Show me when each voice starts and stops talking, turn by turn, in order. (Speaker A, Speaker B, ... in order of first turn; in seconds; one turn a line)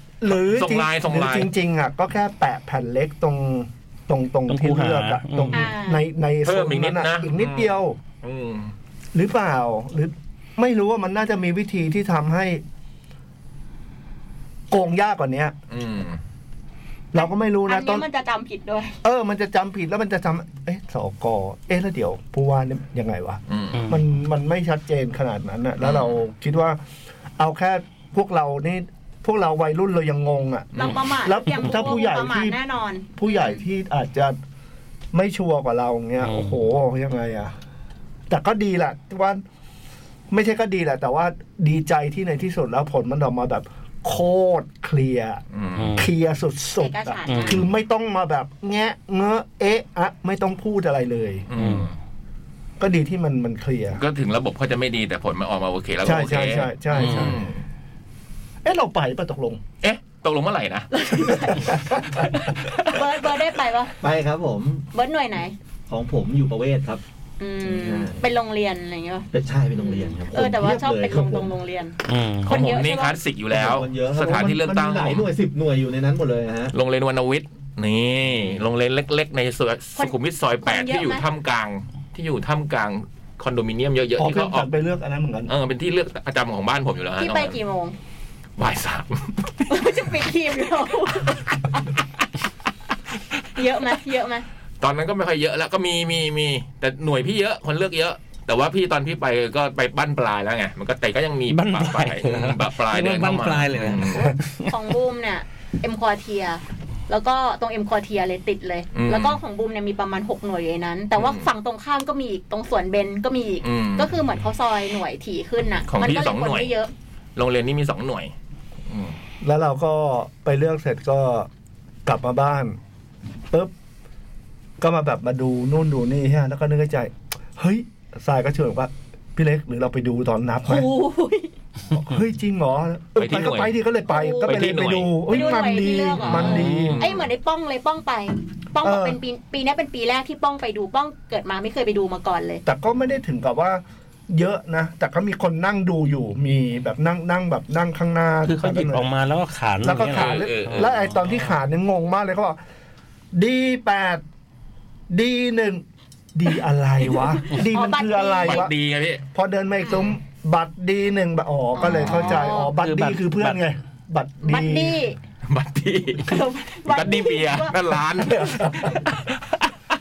Speaker A: 0.2-8.0
Speaker B: 0.4-1.5
Speaker C: 4.5-5.7
Speaker D: 5.5-6.0
Speaker B: 6.4-8.7
Speaker A: 9.1-12.6
Speaker A: 14.7-15.6
Speaker B: 15.7-16.2
Speaker A: 17.1-18.1
Speaker D: 17.2-19.0
Speaker A: 19.0-26.8
Speaker B: 23.5-23.9
Speaker C: 23.7-24.0
Speaker B: 25.8-26.1
Speaker A: 27.4-32.6
Speaker B: 30.8-31.0
Speaker D: 30.8-33.6
Speaker A: 33.1-34.4
Speaker A: 35.1-37.5
Speaker C: 36.2-36.6
Speaker A: 38.3-39.4
Speaker A: 40.3-45.4
Speaker B: 45.5-46.0
Speaker C: 45.8-46.1
Speaker A: 46.0-51.5
Speaker D: 46.8-47.6
Speaker C: 47.3-47.7
Speaker B: 51.5-52.0
Speaker C: 51.6-51.9
Speaker A: 52.8-54.0
Speaker B: 54.0-57.6
Speaker A: 56.0-57.5
Speaker C: 57.0-57.4
Speaker A: 58.6-59.6
Speaker B: 59.8-60.9
Speaker D: 60.9-62.2
Speaker A: 61.5-62.2
Speaker B: 62.3-62.9
Speaker D: 62.8-64.0
Speaker E: 64.0-64.9
Speaker D: 64.9-65.5
Speaker E: 65.9-67.0
Speaker D: 67.4-73.2
Speaker E: 67.7-68.2
Speaker E: 69.3-71.5
Speaker C: 72.1-72.6
Speaker B: 72.5-75.3
Speaker E: 73.5-76.7
Speaker B: 76.7-84.7
Speaker D: 80.0-81.2
Speaker A: 84.2-85.5
Speaker B: 85.5-87.6
Speaker D: 87.2-88.0
Speaker B: 88.6-89.7
Speaker D: 89.7-91.9
Speaker D: 93.6-94.5
Speaker B: 94.8-104.3
Speaker C: 101.5-104.7
Speaker D: 104.7-116.9
Speaker B: 108.9-109.4
Speaker B: 111.2-111.5
Speaker B: 113.6-114.1
Speaker B: 115.9-116.7
Speaker B: 117.4-118.3
Speaker B: 118.9-119.2
Speaker A: 119.4-121.5
Speaker A: 122.1-122.8
Speaker A: 124.8-130.9
Speaker D: 130.7-131.5
Speaker A: 131.9-137.0
Speaker B: 133.2-133.7
Speaker D: 134.1-134.6
Speaker B: 134.4-135.1
Speaker D: 135.3-142.6
Speaker B: 136.2-137.3
Speaker C: 136.5-137.0
Speaker A: 138.8-139.2
Speaker A: 142.7-149.1
Speaker C: 148.5-150.9
Speaker A: 149.8-152.6
Speaker B: 150.1-151.6
Speaker A: 153.3-154.2
Speaker A: 155.1-158.7
Speaker D: 157.2-158.7
Speaker B: 158.4-159.2
Speaker A: 159.3-165.0
Speaker D: 161.8-162.7
Speaker C: 162.3-163.6
Speaker D: 164.4-165.2
Speaker B: 165.5-169.7
Speaker D: 166.2-167.7
Speaker A: 168.4-168.8